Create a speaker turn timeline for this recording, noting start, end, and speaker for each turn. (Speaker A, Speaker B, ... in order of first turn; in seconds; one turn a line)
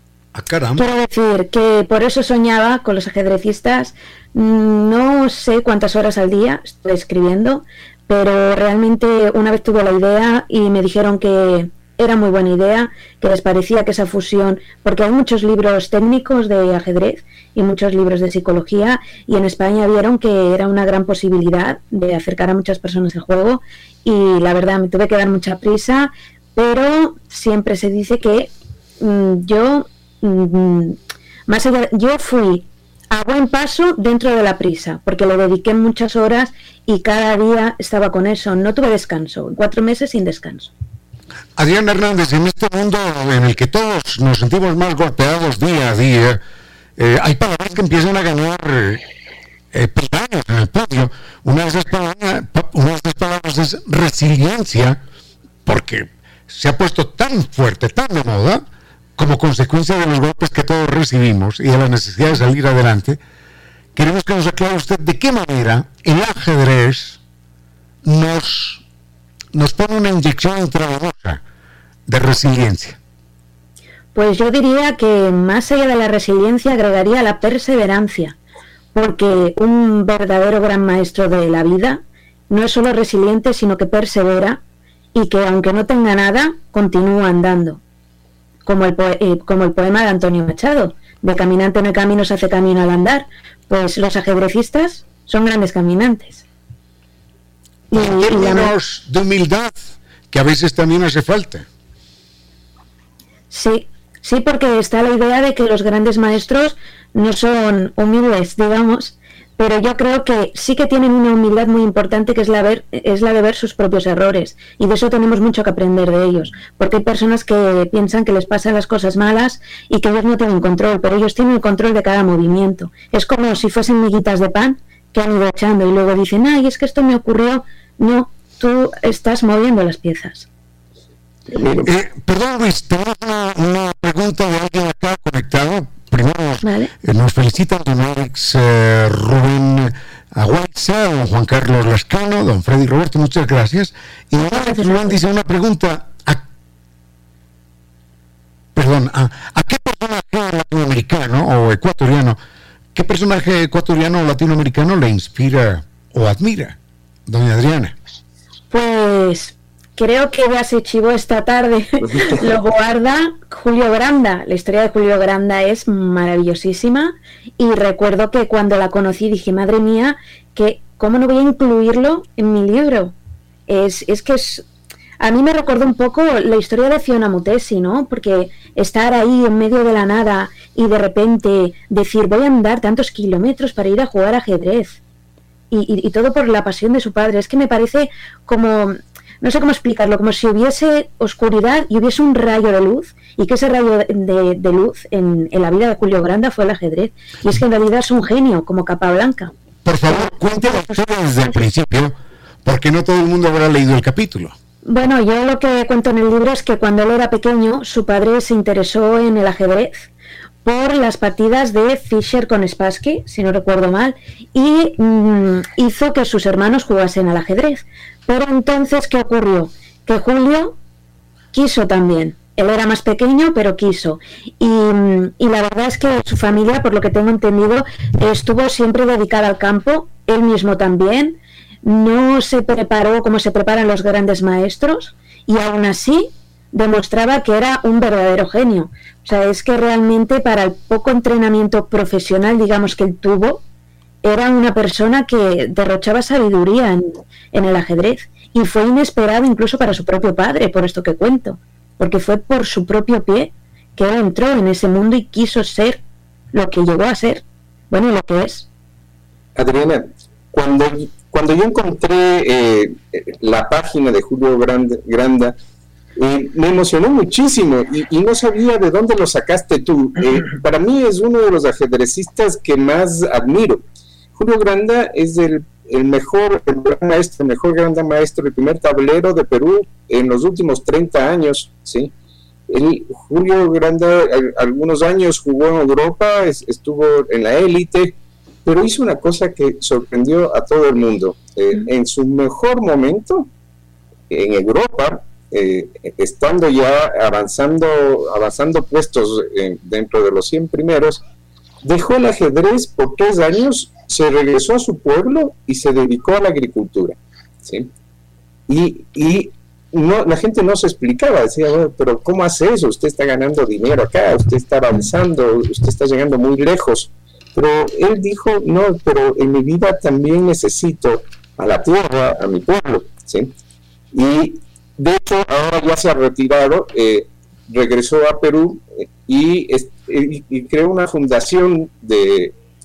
Speaker A: 0.3-0.9
Speaker B: 0.8-40.7
Speaker A: 41.6-46.4
Speaker A: 47.0-49.0
Speaker A: 49.7-55.0
Speaker A: 55.7-58.6
Speaker A: 59.2-63.2
Speaker A: 64.0-67.2
Speaker A: 68.0-68.8
Speaker A: 69.5-71.4
Speaker A: 72.1-73.0
Speaker B: 74.2-78.4
Speaker B: 78.9-84.6
Speaker B: 85.1-87.8
Speaker B: 88.7-96.4
Speaker B: 97.9-98.7
Speaker A: 97.9-101.7
Speaker B: 103.5-130.5
Speaker C: 131.6-131.8
Speaker A: 131.8-146.4
Speaker B: 136.6-136.9
Speaker B: 144.5-145.2
Speaker A: 148.8-152.4
Speaker A: 152.9-157.9
Speaker B: 158.7-173.2
Speaker C: 162.1-162.4
Speaker B: 173.7-174.7
Speaker B: 175.2-185.0
Speaker B: 185.7-199.5
Speaker A: 199.8-204.6
Speaker B: 200.2-200.9
Speaker B: 204.9-210.1
Speaker B: 210.6-220.8
Speaker B: 221.5-243.6
Speaker B: 244.2-256.0
Speaker B: 256.5-258.7
Speaker C: 259.6-265.6
Speaker C: 266.2-273.8
Speaker C: 274.4-282.1
Speaker C: 282.7-293.5
Speaker C: 294.3-301.2
Speaker C: 301.8-307.9
Speaker C: 308.7-323.5
Speaker C: 324.1-332.5